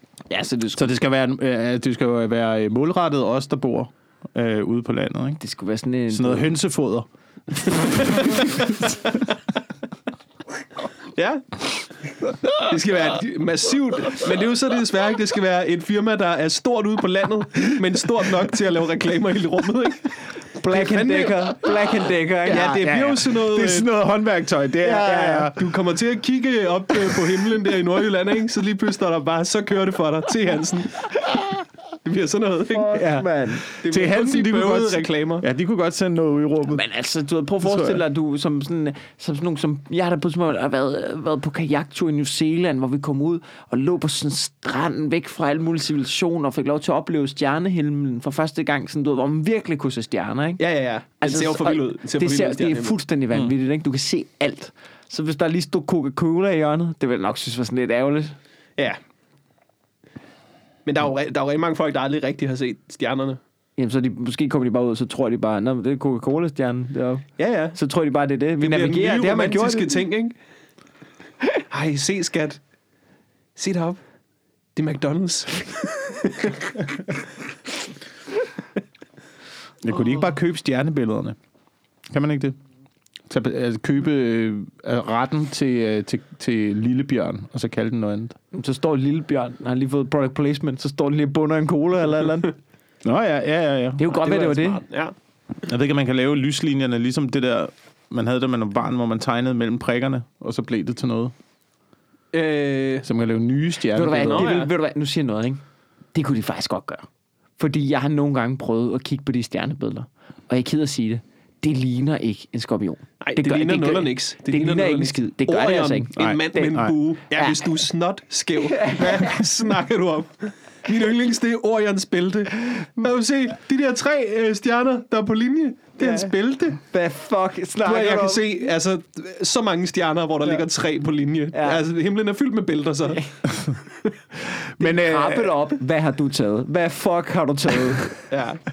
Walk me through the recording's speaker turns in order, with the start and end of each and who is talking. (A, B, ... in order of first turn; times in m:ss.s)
0:00.3-0:01.0 A
0:00.8-0:05.4 B
0:05.4-0:06.5 A
0:06.1-0:08.6 B
0:07.9-0:08.6 C
0:11.1-0:11.7 C
0:12.5-0:20.2 C
0:20.6-0:22.8 A
0:20.7-0:21.9 C
0:22.5-0:23.9 C
0:22.5-0:25.7 B
0:24.8-0:25.5 A
0:25.3-0:31.1 C
0:32.0-0:33.2 C
0:32.8-0:33.6 A
0:32.9-0:36.8 B
0:33.8-0:35.4 C
0:36.7-0:50.6 A
0:37.6-0:38.0 B
0:50.6-0:53.0 C
0:51.2-0:58.4 A
1:00.9-1:03.4 C
1:03.8-1:10.0 A
1:07.4-1:07.8 C
1:08.6-1:10.4 C
1:11.7-1:12.6 C
1:13.6-1:14.0 C
1:14.8-1:16.7 C
1:19.8-1:21.4 B
1:22.1-1:22.6 B
1:23.3-1:28.4 B
1:28.5-1:32.5 A
1:33.0-1:34.0 B
1:34.0-1:34.8 A
1:34.1-1:35.1 C
1:35.7-1:41.3 B
1:42.3-1:43.1 C
1:43.0-1:44.5 B
1:43.9-1:45.6 A
1:44.3-1:44.7 C
1:46.1-1:47.0 A
1:47.6-1:57.8 A
1:53.2-2:06.8 C
1:56.2-1:57.0 B
1:58.7-1:59.4 A
2:06.0-2:08.4 A
2:07.8-2:13.2 C
2:11.5-2:11.8 A
2:14.5-2:15.5 B
2:14.8-2:18.2 A
2:18.3-2:18.6 C